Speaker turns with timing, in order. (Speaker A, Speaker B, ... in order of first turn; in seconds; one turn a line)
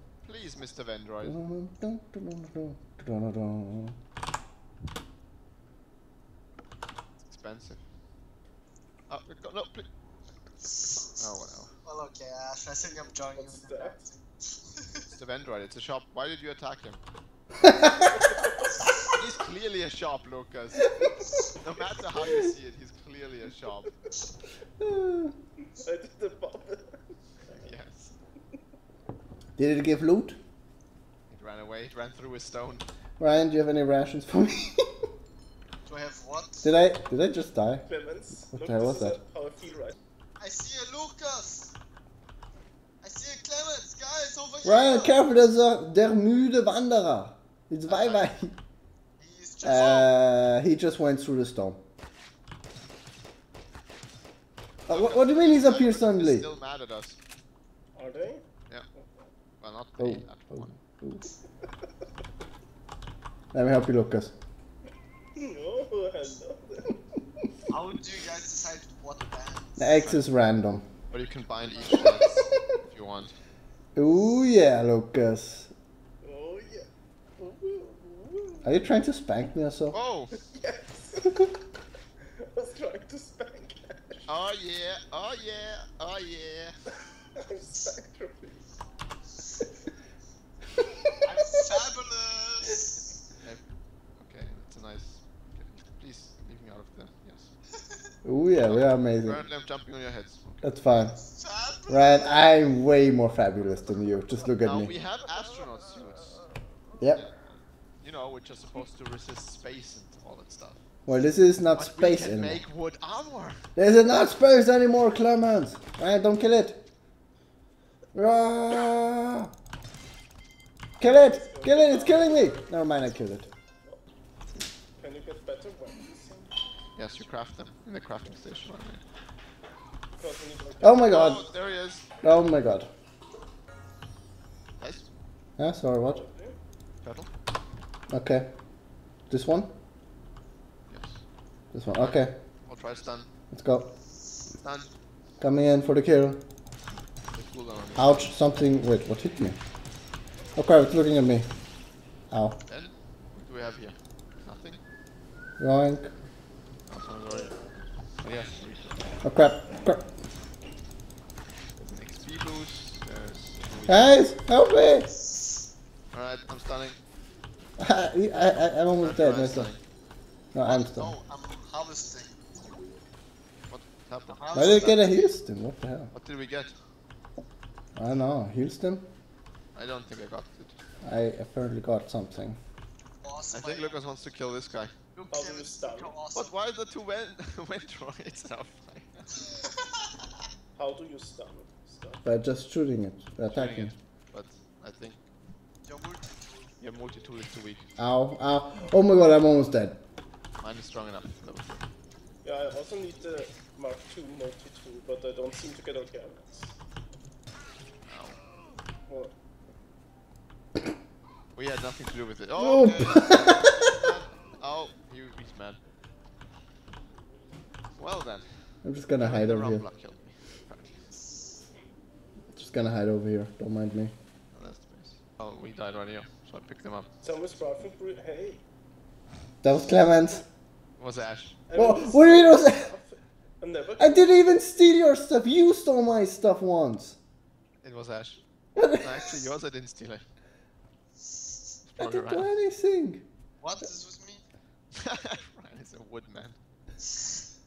Speaker A: 0.2-1.4
Speaker B: 1.2-4.0
Speaker A: 7.2-7.8
Speaker A: 9.1-9.9
Speaker A: 11.2-11.7
Speaker C: 11.8-15.0
Speaker D: 13.2-14.1
Speaker A: 15.1-17.0
Speaker B: 17.6-17.9
Speaker D: 17.9-18.7
Speaker A: 19.1-20.9
Speaker A: 21.6-23.9
Speaker B: 24.8-25.3
Speaker D: 25.8-27.7
Speaker A: 27.6-28.1
Speaker B: 29.6-30.4
Speaker A: 31.3-32.9
Speaker B: 33.2-34.9
Speaker C: 35.9-36.7
Speaker B: 36.6-37.9
Speaker D: 37.9-40.0
Speaker B: 38.5-39.2
Speaker C: 40.4-41.8
Speaker C: 43.0-45.2
Speaker B: 44.6-48.5
Speaker A: 47.9-48.3
Speaker C: 49.2-50.1
Speaker B: 49.6-51.8
Speaker B: 54.9-56.5
Speaker A: 54.9-57.2
Speaker D: 58.0-58.4
Speaker D: 59.0-59.2
Speaker A: 59.6-60.8
Speaker B: 60.0-61.3
Speaker B: 63.5-64.3
Speaker D: 65.4-67.0
Speaker C: 67.7-69.9
Speaker B: 69.8-70.8
Speaker A: 70.0-70.3
Speaker A: 71.1-73.3
Speaker B: 74.0-75.7
Speaker D: 76.2-78.8
Speaker B: 78.6-80.0
Speaker A: 79.9-80.4
Speaker D: 80.3-81.5
Speaker D: 82.4-84.3
Speaker A: 84.3-86.7
Speaker D: 87.3-88.7
Speaker C: 91.2-93.1
Speaker A: 94.2-97.5
Speaker B: 98.2-99.4
Speaker A: 98.6-100.7
Speaker B: 100.6-101.2
Speaker C: 101.0-102.4
Speaker B: 101.9-104.9
Speaker A: 104.6-106.5
Speaker B: 107.0-107.3
Speaker A: 107.1-110.8
Speaker B: 111.1-112.6
Speaker A: 111.7-113.6
Speaker B: 113.8-116.8
Speaker B: 118.1-119.5
Speaker B: 121.0-123.5
Speaker D: 121.0-122.6
Speaker D: 125.0-126.5
Speaker A: 127.0-129.0
Speaker D: 130.2-131.1
Speaker B: 130.8-131.5
Speaker A: 131.1-132.1
Speaker B: 132.2-132.9
Speaker A: 134.8-135.1
Speaker B: 135.6-136.2
Speaker D: 136.1-136.6
Speaker A: 137.0-137.3
Speaker B: 138.1-138.5
Speaker B: 139.3-139.7
Speaker A: 140.9-141.2
Speaker B: 141.7-142.3
Speaker A: 141.9-143.3
Speaker B: 143.5-143.9
Speaker A: 144.6-144.9
Speaker B: 145.4-146.4
Speaker A: 147.3-148.3
Speaker B: 147.9-149.6
Speaker B: 150.6-151.5
Speaker B: 152.3-152.6
Speaker A: 152.7-154.8
Speaker B: 155.6-156.1
Speaker A: 156.9-159.1
Speaker B: 159.2-160.1
Speaker A: 161.8-164.2
Speaker B: 163.9-165.1
Speaker A: 166.1-167.0
Speaker B: 167.8-169.7
Speaker A: 169.0-169.8
Speaker B: 170.5-171.1
Speaker C: 170.7-172.4
Speaker A: 173.7-175.1
Speaker C: 174.3-175.1
Speaker B: 174.5-176.1
Speaker A: 176.1-176.7
Speaker B: 178.0-179.1
Speaker A: 179.7-180.8
Speaker B: 181.0-182.6
Speaker C: 183.2-184.0
Speaker A: 183.5-184.9
Speaker C: 185.2-186.6
Speaker D: 185.3-186.2
Speaker A: 186.3-189.4
Speaker D: 190.8-192.2
Speaker B: 192.2-193.9
Speaker A: 193.5-195.2
Speaker C: 195.8-196.7
Speaker A: 196.8-197.9
Speaker B: 198.0-200.0
Speaker A: 200.6-201.9
Speaker D: 202.4-206.7
Speaker A: 208.1-208.4
Speaker A: 211.5-215.8
Speaker B: 212.5-213.8
Speaker A: 218.0-221.0
Speaker B: 218.8-219.8
Speaker B: 222.5-224.1
Speaker A: 224.5-227.1
Speaker D: 227.2-228.6
Speaker B: 229.6-230.4
Speaker A: 231.0-231.6
Speaker D: 231.7-234.6
Speaker B: 231.7-232.9
Speaker B: 234.0-237.2
Speaker A: 237.8-238.4
Speaker B: 238.8-239.1
Speaker A: 238.9-240.2
Speaker A: 241.8-242.5
Speaker B: 242.0-243.2
Speaker C: 243.6-244.4
Speaker A: 244.9-246.6